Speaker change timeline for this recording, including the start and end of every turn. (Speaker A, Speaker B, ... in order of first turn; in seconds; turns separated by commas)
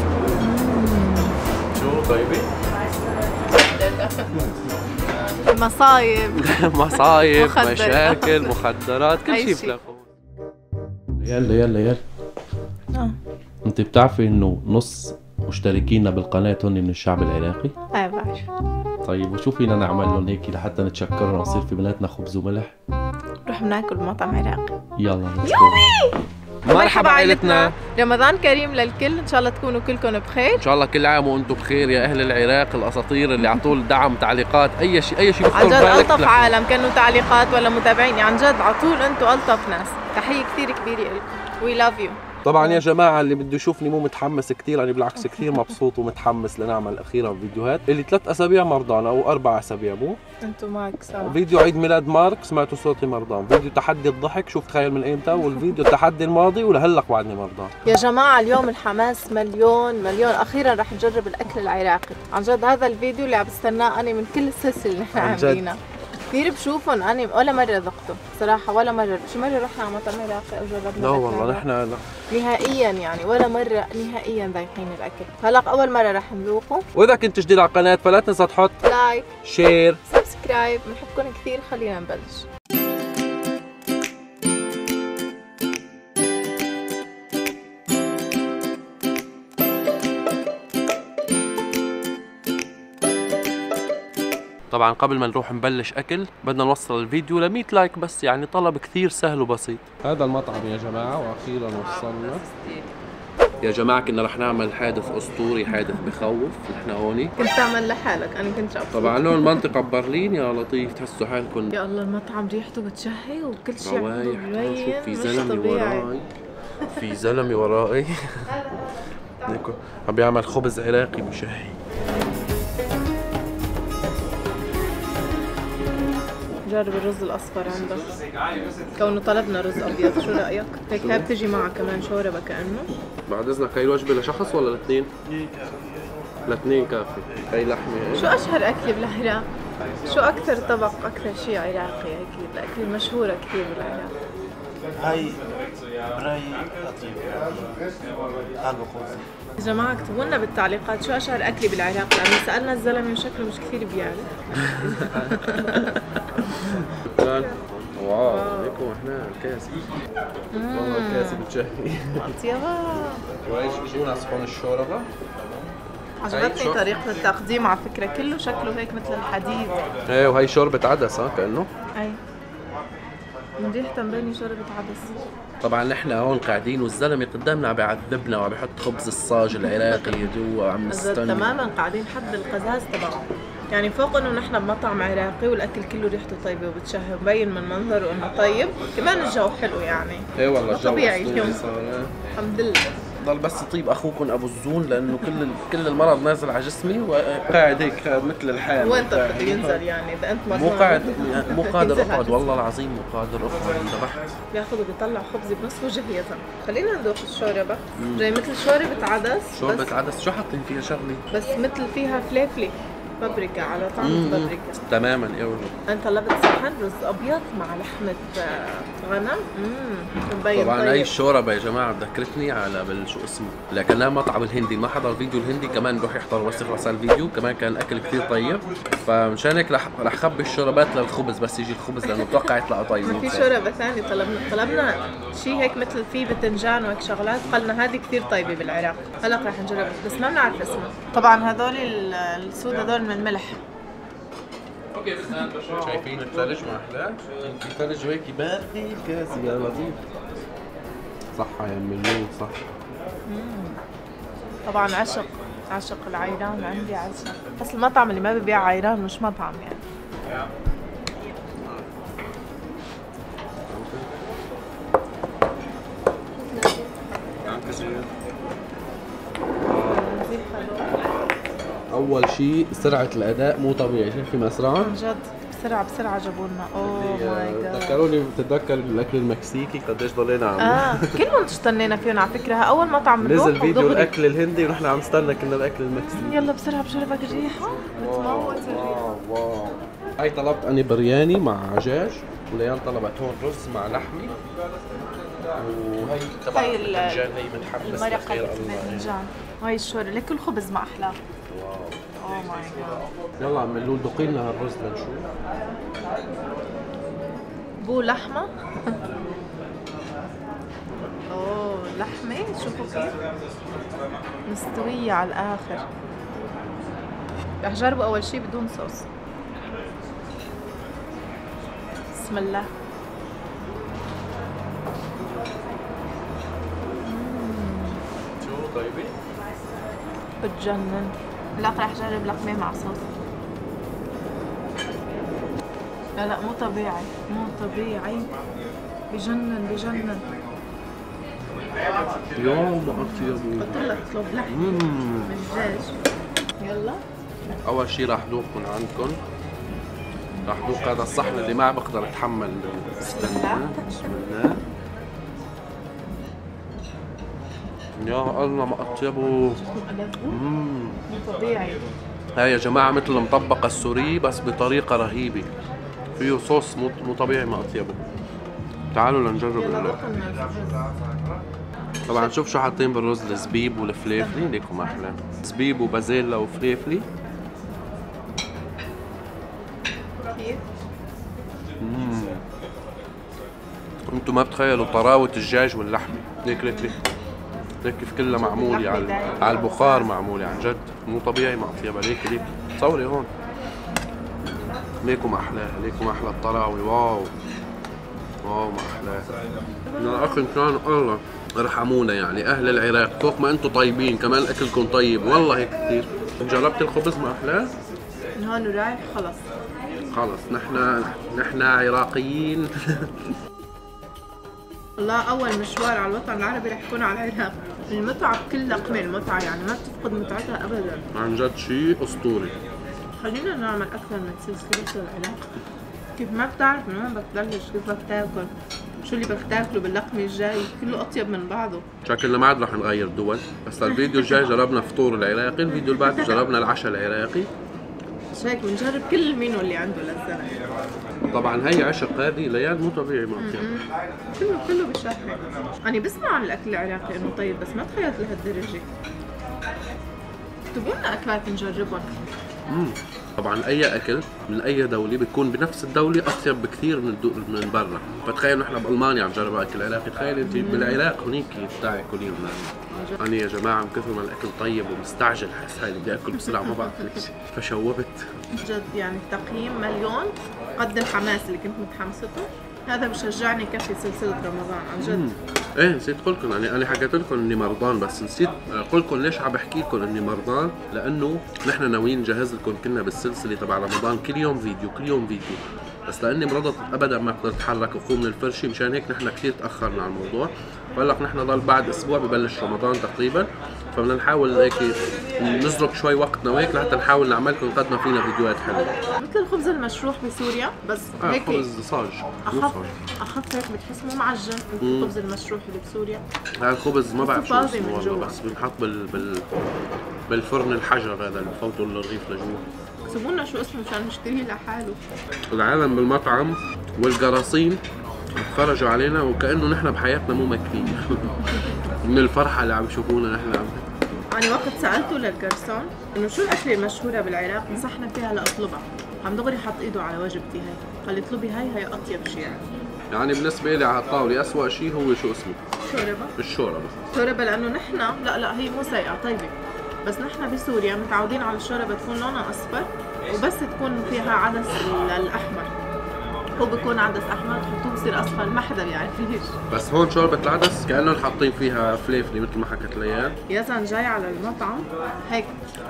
Speaker A: 0.4-1.4, Speaker B: 1.7-2.5, Speaker A: 3.5-4.3, Speaker A: 5.5-8.5, Speaker B: 6.4-10.1, Speaker A: 9.2-9.8, Speaker B: 11.2-12.0, Speaker B: 13.7-17.7, Speaker A: 17.9-18.5, Speaker B: 19.0-22.7, Speaker A: 23.5-24.7, Speaker B: 25.0-25.9, Speaker A: 25.4-26.2, Speaker B: 26.7-27.8, Speaker A: 26.7-30.6, Speaker B: 30.6-36.5, Speaker A: 33.4-33.7, Speaker A: 35.5-42.8, Speaker B: 42.4-50.2, Speaker A: 45.2-45.7, Speaker A: 50.4-51.4, Speaker B: 51.2-57.7, Speaker A: 55.4-55.7, Speaker A: 57.9-65.8, Speaker B: 65.2-65.6, Speaker A: 66.3-71.7, Speaker B: 71.0-72.1, Speaker A: 72.3-76.8, Speaker B: 77.0-78.8, Speaker A: 78.8-79.3, Speaker B: 79.4-80.0, Speaker A: 80.0-82.5, Speaker B: 94.7-102.4, Speaker A: 101.7-102.9, Speaker B: 103.6-107.4, Speaker A: 105.8-106.2, Speaker A: 107.4-109.7, Speaker B: 108.9-111.8, Speaker A: 111.7-116.1, Speaker B: 113.8-116.3, Speaker B: 116.9-118.5, Speaker A: 118.5-118.9, Speaker B: 119.5-121.8, Speaker A: 126.7-128.2, Speaker A: 128.9-132.9, Speaker B: 131.0-131.3, Speaker B: 133.3-135.5, Speaker C: 135.3-135.8, Speaker B: 136.5-138.4, Speaker A: 138.2-139.5, Speaker A: 140.1-144.1, Speaker C: 145.0-145.4, Speaker C: 146.1-147.7, Speaker C: 148.6-149.3, Speaker A: 149.6-154.3, Speaker B: 154.7-156.0, Speaker A: 154.8-156.0, Speaker B: 157.1-159.8, Speaker A: 158.3-158.8, Speaker A: 160.5-161.4, Speaker B: 160.7-162.3, Speaker A: 162.2-163.2, Speaker B: 163.5-165.1, Speaker A: 166.2-169.7, Speaker B: 166.3-166.8, Speaker B: 170.1-171.7, Speaker A: 173.6-175.2, Speaker B: 175.6-181.6, Speaker A: 179.6-180.3, Speaker A: 180.9-191.6, Speaker B: 190.4-192.1, Speaker A: 192.4-192.8, Speaker B: 193.2-199.8, Speaker A: 198.8-202.5, Speaker B: 200.5-204.3, Speaker A: 204.5-209.9, Speaker B: 208.0-208.3, Speaker B: 209.5-211.2, Speaker A: 211.3-214.8, Speaker B: 214.0-215.8, Speaker A: 215.9-221.1, Speaker B: 220.5-233.5, Speaker A: 232.1-232.5, Speaker A: 233.0-243.6, Speaker B: 245.8-250.0, Speaker B: 251.3-252.6, Speaker A: 253.3-253.8, Speaker A: 254.7-259.8, Speaker B: 261.6-261.9, Speaker B: 263.7-264.1, Speaker A: 266.5-266.9, Speaker B: 267.4-268.1, Speaker B: 269.7-270.1, Speaker A: 269.7-270.9, Speaker B: 271.9-275.0, Speaker A: 274.8-278.0, Speaker B: 276.8-281.2, Speaker A: 280.6-284.1, Speaker B: 283.2-286.5, Speaker A: 286.0-289.0, Speaker B: 287.3-294.4, Speaker B: 295.6-299.1, Speaker A: 296.5-297.2, Speaker A: 297.8-301.2, Speaker B: 301.5-302.0, Speaker A: 302.2-303.0, Speaker B: 303.4-305.3, Speaker A: 307.8-309.0, Speaker A: 311.3-313.1, Speaker A: 314.5-315.9, Speaker A: 317.6-319.1, Speaker A: 322.1-322.7, Speaker A: 327.1-328.0, Speaker B: 328.4-329.2, Speaker A: 330.4-333.1, Speaker A: 336.2-338.3, Speaker A: 339.1-340.2, Speaker B: 342.4-343.8, Speaker A: 342.9-344.7, Speaker B: 344.5-345.3, Speaker A: 345.3-345.9, Speaker A: 346.6-347.0, Speaker B: 347.6-349.2, Speaker B: 350.5-354.6, Speaker A: 353.0-354.0, Speaker B: 358.0-359.6, Speaker A: 359.6-360.4, Speaker B: 360.3-361.0, Speaker A: 361.1-361.8, Speaker B: 362.4-365.5, Speaker B: 366.2-368.0, Speaker B: 368.9-370.0, Speaker A: 369.6-370.9, Speaker A: 372.1-372.3, Speaker B: 372.1-377.1, Speaker A: 374.2-374.5, Speaker A: 380.2-380.6, Speaker B: 381.8-382.4, Speaker B: 384.1-387.0, Speaker A: 386.6-386.9, Speaker B: 387.8-393.3, Speaker A: 388.3-390.1, Speaker B: 395.0-397.3, Speaker B: 398.4-399.3, Speaker A: 399.9-400.5, Speaker B: 400.0-407.7, Speaker A: 408.4-409.4, Speaker B: 410.1-412.7, Speaker A: 415.0-421.1, Speaker B: 421.1-422.5, Speaker A: 423.2-425.5, Speaker A: 426.2-431.9, Speaker B: 432.1-437.5, Speaker A: 433.9-434.5, Speaker A: 435.7-436.4, Speaker A: 438.3-440.5, Speaker B: 441.3-443.7, Speaker A: 443.4-443.9, Speaker A: 444.4-448.9, Speaker A: 450.7-452.2, Speaker B: 452.7-468.3, Speaker A: 460.4-461.0, Speaker A: 462.9-463.2, Speaker A: 466.4-467.2, Speaker A: 468.6-475.2, Speaker B: 475.0-498.9, Speaker A: 499.2-501.7, Speaker B: 501.2-502.9, Speaker A: 502.5-506.2, Speaker B: 504.8-505.1, Speaker B: 506.6-509.5, Speaker A: 507.2-508.6, Speaker B: 510.3-512.6, Speaker A: 513.1-515.0, Speaker B: 515.5-517.8, Speaker B: 518.4-521.3, Speaker B: 522.0-523.9, Speaker A: 524.3-532.6, Speaker B: 533.1-535.6, Speaker A: 535.9-536.3, Speaker B: 536.4-537.0, Speaker A: 537.1-545.7, Speaker A: 546.6-549.6, Speaker B: 549.7-553.4, Speaker A: 553.5-555.5